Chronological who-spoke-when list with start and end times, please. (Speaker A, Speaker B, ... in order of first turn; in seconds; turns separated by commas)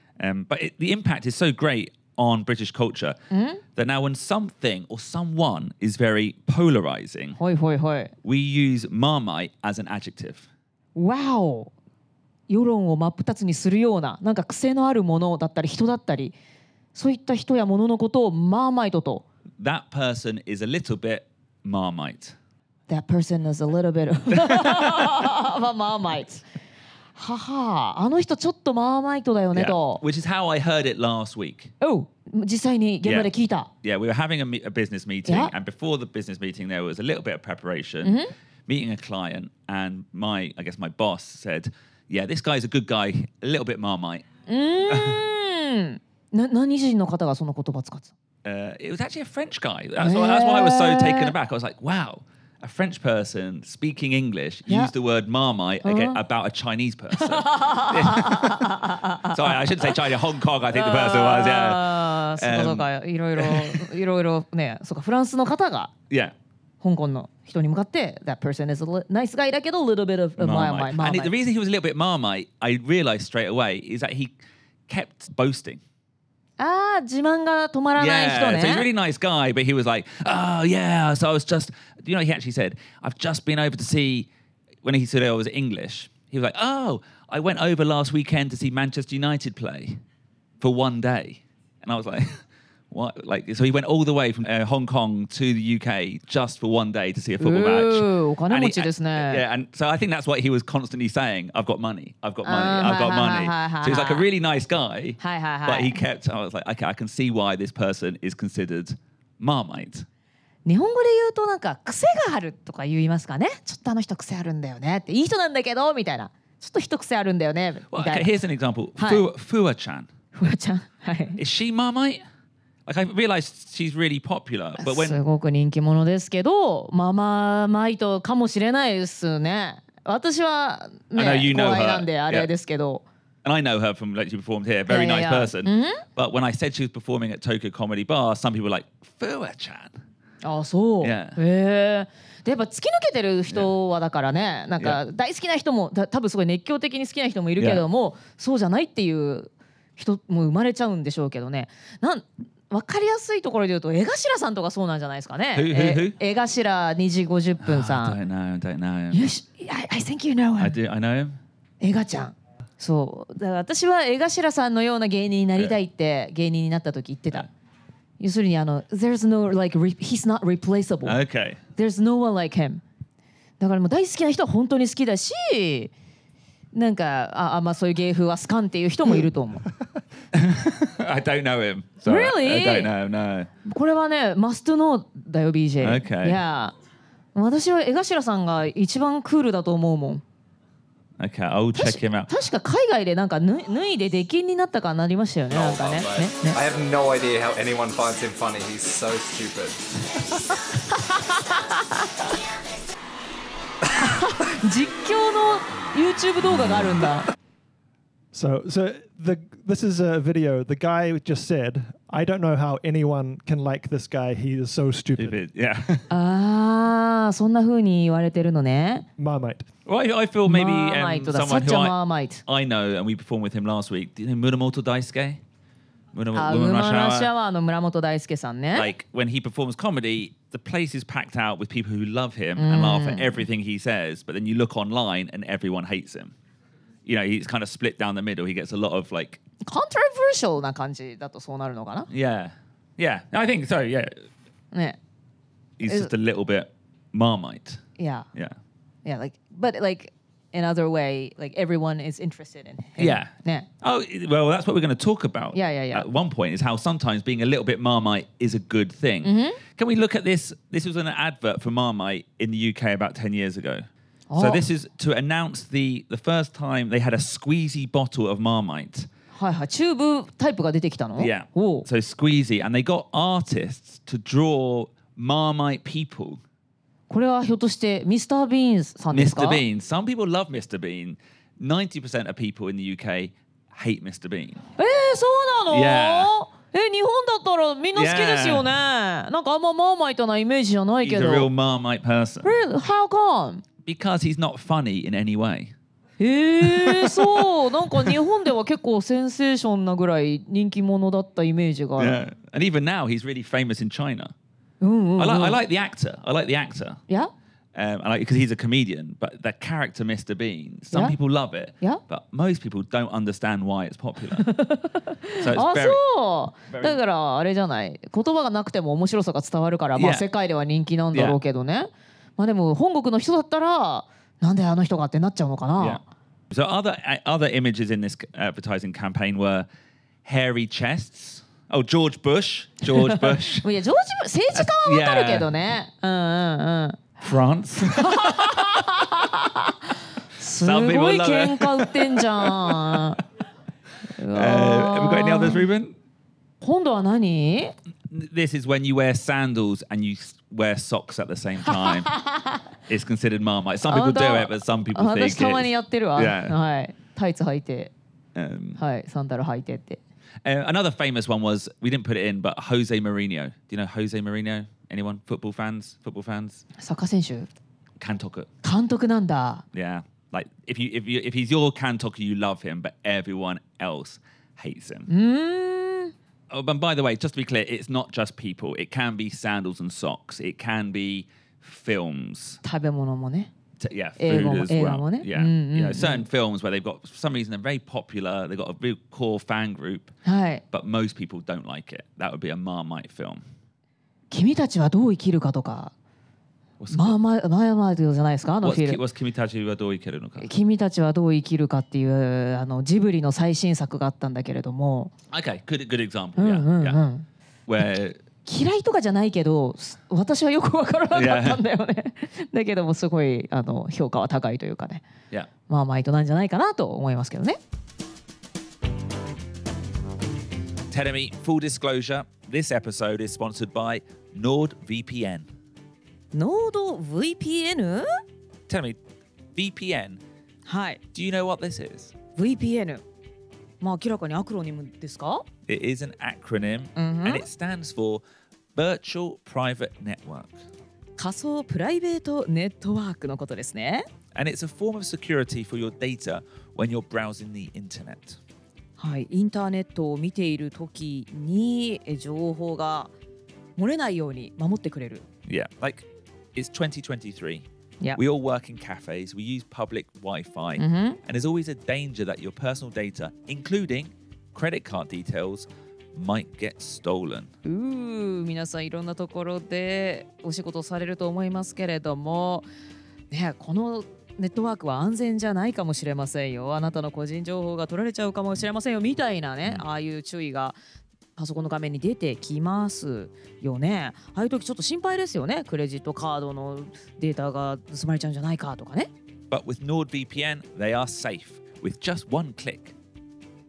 Speaker A: 0.2-3.2, Speaker B: 3.3-3.6, Speaker A: 3.8-7.4, Speaker B: 7.4-8.1, Speaker A: 8.2-10.5, Speaker B: 10.9-11.7, Speaker B: 12.5-16.4, Speaker B: 16.9-19.2, Speaker A: 19.6-22.4, Speaker B: 22.9-26.4, Speaker A: 24.3-25.3, Speaker B: 27.1-30.0, Speaker A: 29.5-31.7, Speaker B: 31.8-33.7, Speaker A: 33.0-33.3, Speaker A: 33.8-44.3, Speaker B: 35.3-35.5, Speaker B: 38.0-38.3, Speaker B: 44.5-48.1, Speaker A: 44.9-45.2, Speaker A: 48.4-63.9, Speaker B: 50.0-51.3, Speaker B: 55.8-56.2, Speaker B: 57.2-60.0, Speaker B: 60.7-65.9, Speaker A: 66.1-66.3, Speaker B: 66.8-71.3, Speaker A: 70.4-74.4, Speaker A: 74.9-75.8, Speaker B: 76.6-78.9, Speaker A: 78.0-84.3, Speaker A: 84.8-90.0, Speaker A: 90.6-110.1, Speaker B: 97.4-99.4, Speaker B: 102.4-104.2, Speaker B: 105.2-106.0, Speaker B: 110.7-118.3, Speaker A: 117.9-120.1, Speaker B: 119.0-119.2, Speaker B: 120.3-121.4, Speaker A: 121.4-122.2, Speaker A: 122.9-125.2, Speaker B: 124.8-133.0, Speaker A: 131.2-132.5, Speaker A: 133.4-140.0, Speaker B: 134.9-136.0, Speaker B: 140.4-158.2, Speaker A: 141.0-141.4, Speaker A: 147.6-147.8, Speaker A: 155.5-156.2, Speaker A: 157.6-159.3, Speaker B: 159.1-160.8, Speaker A: 160.6-161.4, Speaker B: 161.8-167.5, Speaker B: 168.2-171.2, Speaker A: 171.1-171.6, Speaker B: 171.8-172.8, Speaker B: 173.6-175.9, Speaker B: 176.7-179.7, Speaker A: 180.3-183.5, Speaker B: 182.1-182.9, Speaker B: 183.7-186.7, Speaker A: 185.8-186.4, Speaker B: 187.3-190.2, Speaker A: 191.2-192.3, Speaker B: 191.8-196.6, Speaker C: 195.5-200.0, Speaker B: 200.9-202.1, Speaker B: 203.9-207.3, Speaker A: 206.6-207.0, Speaker D: 208.3-215.4, Speaker A: 215.2-216.1, Speaker B: 216.1-219.1, Speaker D: 219.2-219.7, Speaker A: 219.9-225.4, Speaker B: 220.5-222.4, Speaker A: 226.1-227.3, Speaker B: 226.3-228.9, Speaker A: 228.8-236.3, Speaker B: 232.6-233.4, Speaker A: 237.1-239.4, Speaker B: 239.7-242.1, Speaker A: 242.1-244.3, Speaker B: 244.7-245.0, Speaker A: 245.8-247.8, Speaker B: 245.9-246.1, Speaker B: 248.0-248.3, Speaker B: 249.1-253.7, Speaker A: 253.0-269.1, Speaker B: 255.5-256.1, Speaker B: 259.2-259.6, Speaker B: 264.3-264.6, Speaker B: 269.3-271.9, Speaker A: 271.2-276.4, Speaker B: 277.1-279.6, Speaker A: 279.1-284.7, Speaker B: 284.8-291.5, Speaker A: 285.7-286.3, Speaker A: 287.9-288.7, Speaker A: 291.0-292.5, Speaker B: 292.4-293.6, Speaker A: 293.8-295.7, Speaker B: 296.2-302.2, Speaker A: 296.6-298.2, Speaker A: 302.0-304.3, Speaker B: 304.8-305.6, Speaker A: 305.2-307.0, Speaker A: 307.8-314.5, Speaker B: 310.9-311.2, Speaker B: 314.4-326.0, Speaker A: 315.4-316.0, Speaker A: 316.7-317.0, Speaker A: 319.9-320.3, Speaker A: 321.1-321.4, Speaker A: 325.8-329.7, Speaker A: 330.2-333.7, Speaker B: 332.9-337.1, Speaker A: 334.5-335.5, Speaker A: 337.2-338.8, Speaker B: 337.8-343.2, Speaker A: 340.6-343.0, Speaker B: 344.2-345.6, Speaker A: 344.3-346.0, Speaker B: 346.6-347.7, Speaker A: 348.1-352.1, Speaker B: 351.7-352.6, Speaker A: 352.9-356.6, Speaker B: 353.9-357.9, Speaker A: 358.4-358.8, Speaker B: 358.8-360.0, Speaker A: 360.4-366.6, Speaker B: 366.8-367.5, Speaker A: 368.0-368.5, Speaker B: 368.6-369.6, Speaker A: 369.7-375.1, Speaker B: 375.1-376.1, Speaker A: 376.5-382.6, Speaker B: 382.6-383.5, Speaker A: 383.8-390.1, Speaker B: 384.2-386.2, Speaker B: 390.2-390.6, Speaker A: 390.7-393.4, Speaker B: 394.3-395.9, Speaker A: 396.8-397.2, Speaker B: 396.9-399.0, Speaker A: 398.6-400.5, Speaker B: 400.4-405.1, Speaker A: 405.3-407.0, Speaker B: 406.4-407.3, Speaker A: 407.7-408.2, Speaker B: 408.4-415.0, Speaker A: 411.1-411.6, Speaker B: 415.7-417.6, Speaker A: 420.9-425.5, Speaker B: 426.3-428.1, Speaker A: 428.7-429.0, Speaker A: 429.6-430.2, Speaker B: 430.7-431.0, Speaker A: 431.1-432.1, Speaker B: 432.4-433.0, Speaker B: 433.8-435.5, Speaker A: 435.7-438.2, Speaker B: 437.0-437.5, Speaker A: 438.8-440.6, Speaker B: 441.2-444.1, Speaker A: 444.4-448.4, Speaker B: 449.0-453.1, Speaker B: 453.8-455.3, Speaker A: 455.5-467.5, Speaker B: 460.8-461.2, Speaker B: 467.6-472.7, Speaker B: 473.3-480.8, Speaker B: 481.4-489.1, Speaker A: 489.5-493.0